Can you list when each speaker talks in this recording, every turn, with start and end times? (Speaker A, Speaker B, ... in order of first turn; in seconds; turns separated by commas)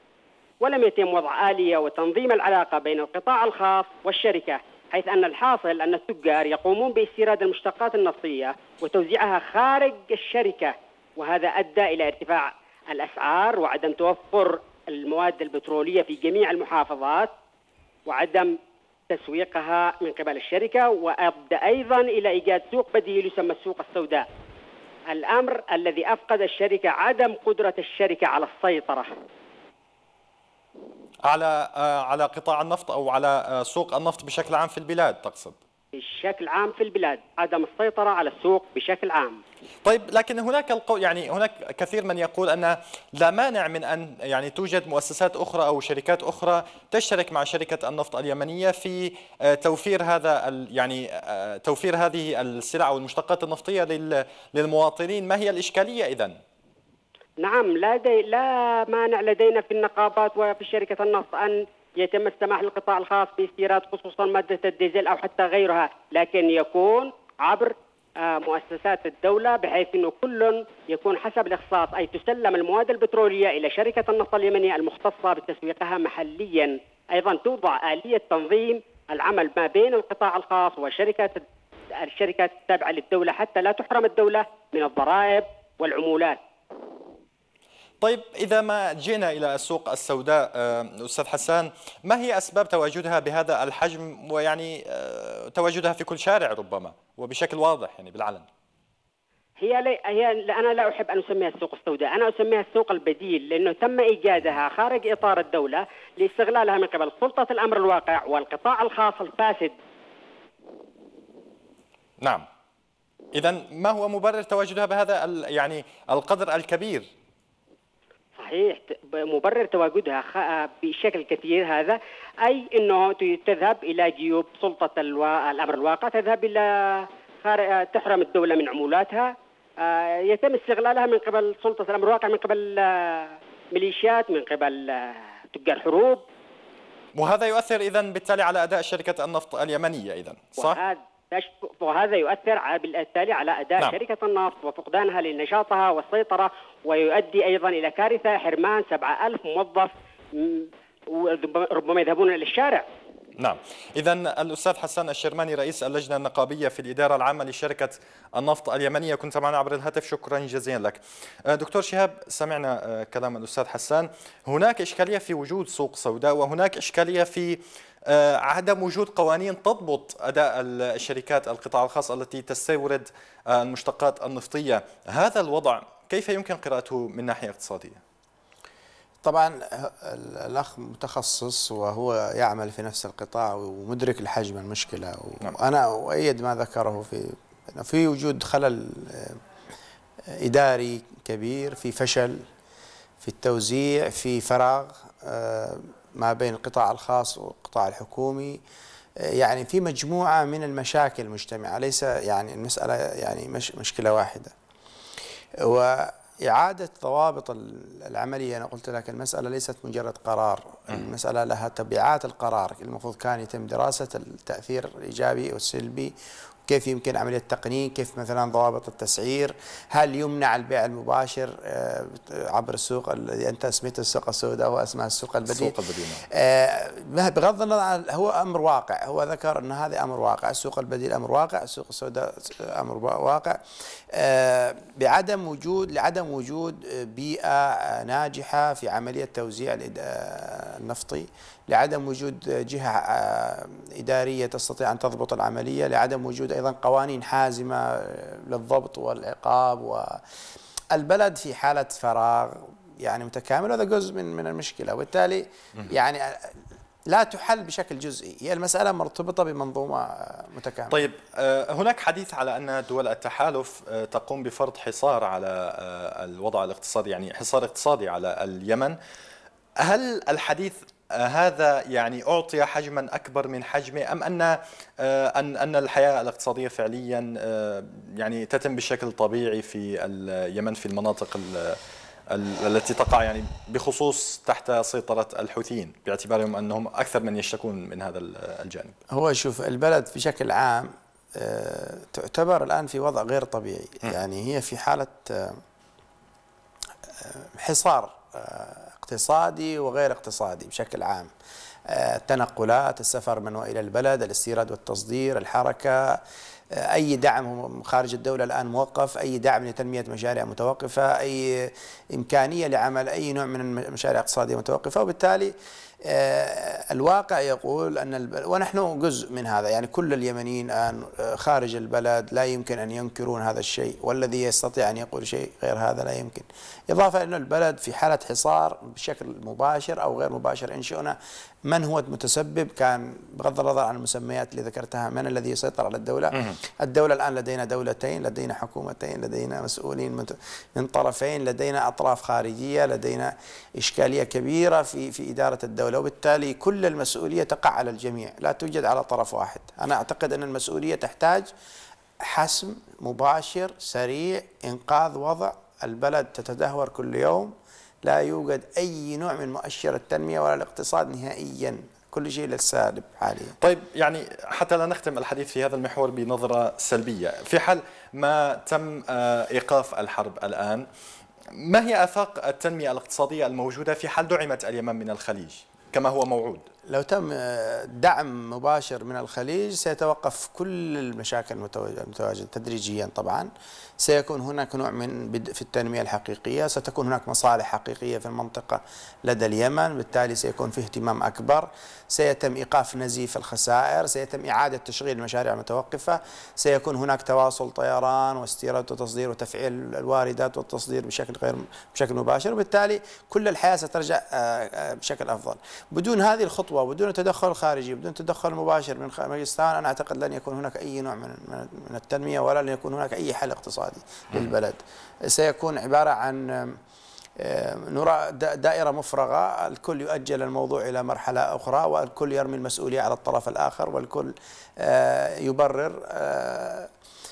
Speaker A: 0.6-17.3, Speaker A: 18.1-18.6, Speaker A: 19.1-24.3, Speaker A: 25.1-29.1, Speaker B: 31.2-35.5, Speaker A: 35.9-39.4, Speaker B: 39.8-56.4, Speaker A: 57.4-81.4, Speaker A: 82.0-86.4, Speaker B: 88.0-98.5, Speaker A: 99.6-109.7, Speaker B: 112.2-112.5, Speaker B: 113.3-117.1, Speaker A: 118.4-136.2, Speaker B: 137.1-140.8, Speaker A: 140.6-152.9, Speaker B: 153.4-178.0, Speaker C: 179.2-189.4, Speaker C: 190.3-192.4, Speaker C: 193.2-198.6, Speaker C: 199.2-204.5, Speaker C: 205.6-216.1, Speaker C: 216.7-225.8, Speaker B: 225.5-226.2, Speaker C: 226.3-233.6, Speaker C: 234.1-250.2, Speaker C: 250.9-261.0, Speaker B: 260.9-269.0, Speaker B: 269.8-281.8, Speaker B: 282.3-288.9, Speaker C: 289.1-295.6, Speaker C: 297.1-301.3, Speaker C: 301.9-306.2, Speaker C: 306.7-351.5, Speaker C: 352.2-363.6, Speaker B: 363.6-370.9, Speaker B: 371.5-376.7, Speaker C: 376.9-383.5, Speaker C: 384.0-416.8, Speaker C: 417.4-426.9